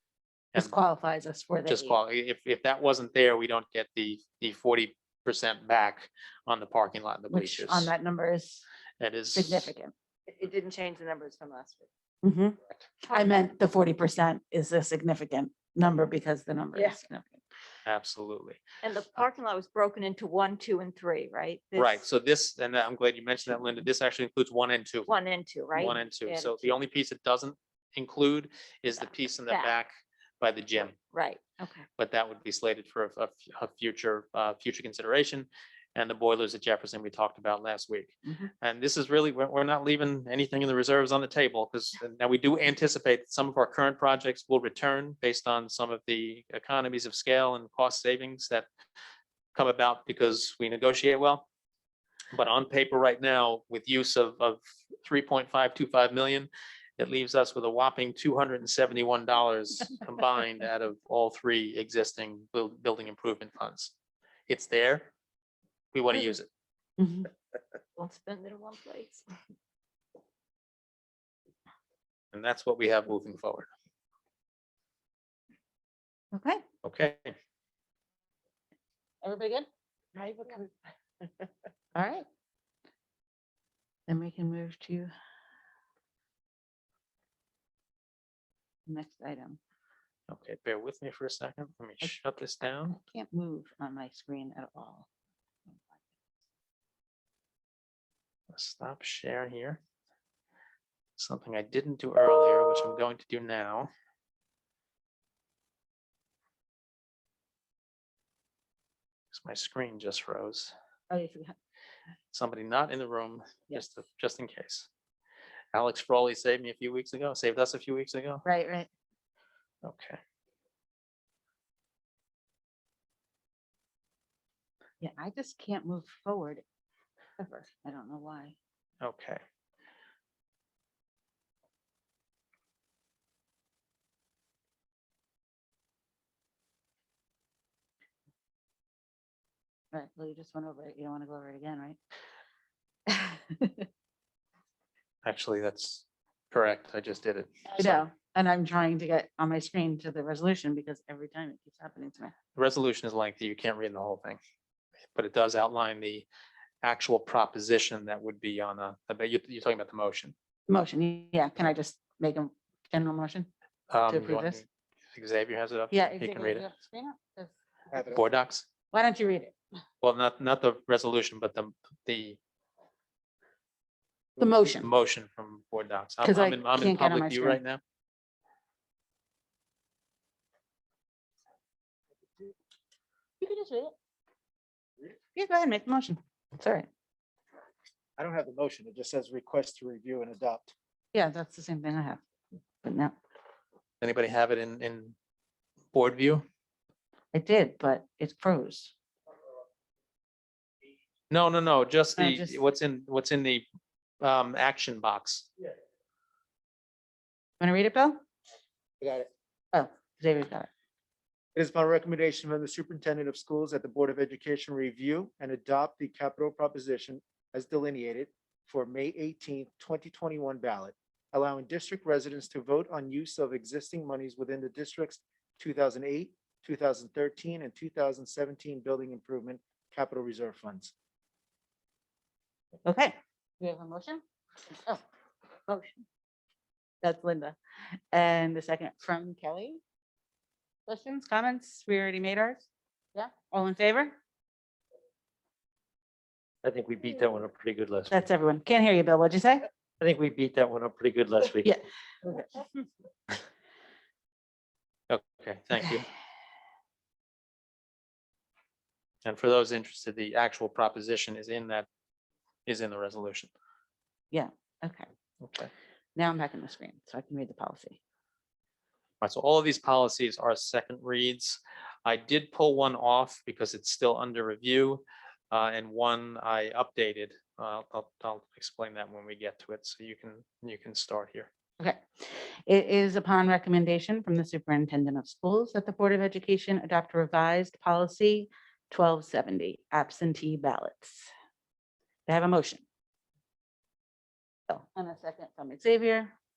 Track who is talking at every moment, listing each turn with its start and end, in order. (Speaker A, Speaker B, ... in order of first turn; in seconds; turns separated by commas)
Speaker A: 0.6-2.0, Speaker B: 1.6-7.9, Speaker A: 7.3-8.6, Speaker B: 9.0-9.7, Speaker A: 9.3-9.9, Speaker C: 10.3-11.9, Speaker A: 12.2-12.6, Speaker A: 13.1-17.4, Speaker B: 17.9-18.6, Speaker C: 18.8-22.0, Speaker B: 21.8-25.1, Speaker C: 25.1-26.8, Speaker B: 25.7-31.0, Speaker C: 29.5-29.8, Speaker C: 31.1-31.9, Speaker B: 32.0-48.6, Speaker B: 49.5-51.5, Speaker B: 52.3-63.9, Speaker B: 64.5-65.1, Speaker B: 65.9-66.5, Speaker A: 67.0-67.3, Speaker C: 68.0-69.2, Speaker B: 72.3-73.7, Speaker A: 76.3-76.6, Speaker B: 76.8-77.3, Speaker A: 79.2-80.7, Speaker A: 81.9-82.2, Speaker A: 84.1-85.1, Speaker A: 88.8-89.6, Speaker B: 90.3-93.0, Speaker A: 92.9-95.1, Speaker A: 95.7-96.0, Speaker B: 98.5-99.8, Speaker B: 101.2-103.9, Speaker B: 109.3-110.7, Speaker A: 111.1-111.5, Speaker B: 112.3-114.9, Speaker B: 115.7-118.4, Speaker A: 118.4-118.9, Speaker B: 119.8-120.2, Speaker A: 125.0-126.6, Speaker A: 127.4-128.6, Speaker B: 129.0-129.4, Speaker A: 139.9-142.0, Speaker A: 143.1-143.8, Speaker B: 145.2-148.0, Speaker A: 147.7-152.3, Speaker B: 152.6-154.4, Speaker B: 155.1-156.2, Speaker B: 156.8-160.3, Speaker A: 160.7-163.5, Speaker B: 163.9-166.7, Speaker A: 164.1-164.6, Speaker A: 165.9-167.5, Speaker D: 167.9-168.2, Speaker B: 168.1-168.7, Speaker A: 168.9-169.5, Speaker B: 170.0-172.4, Speaker A: 174.4-174.9, Speaker B: 174.8-177.8, Speaker A: 176.2-177.6, Speaker A: 183.4-183.9, Speaker A: 185.3-186.9, Speaker D: 188.2-190.7, Speaker A: 191.1-192.2, Speaker A: 192.8-193.1, Speaker B: 194.0-195.1, Speaker B: 195.9-196.4, Speaker A: 197.3-198.9, Speaker B: 201.3-203.6, Speaker A: 202.2-202.6, Speaker B: 204.2-205.5, Speaker A: 207.6-208.2, Speaker D: 209.0-209.3, Speaker A: 209.7-210.7, Speaker D: 211.5-230.9, Speaker A: 232.8-235.0, Speaker A: 235.7-236.0, Speaker A: 237.0-237.6, Speaker A: 238.1-239.8, Speaker A: 240.9-244.2, Speaker E: 246.6-248.1, Speaker A: 248.1-249.7, Speaker E: 250.0-251.7, Speaker A: 251.6-252.6, Speaker B: 255.1-256.1, Speaker B: 259.2-261.9, Speaker B: 262.7-263.5, Speaker A: 264.3-265.1, Speaker B: 265.4-265.7, Speaker A: 266.1-268.0, Speaker B: 269.2-281.5, Speaker A: 282.7-291.3, Speaker A: 292.3-292.8, Speaker A: 294.7-296.3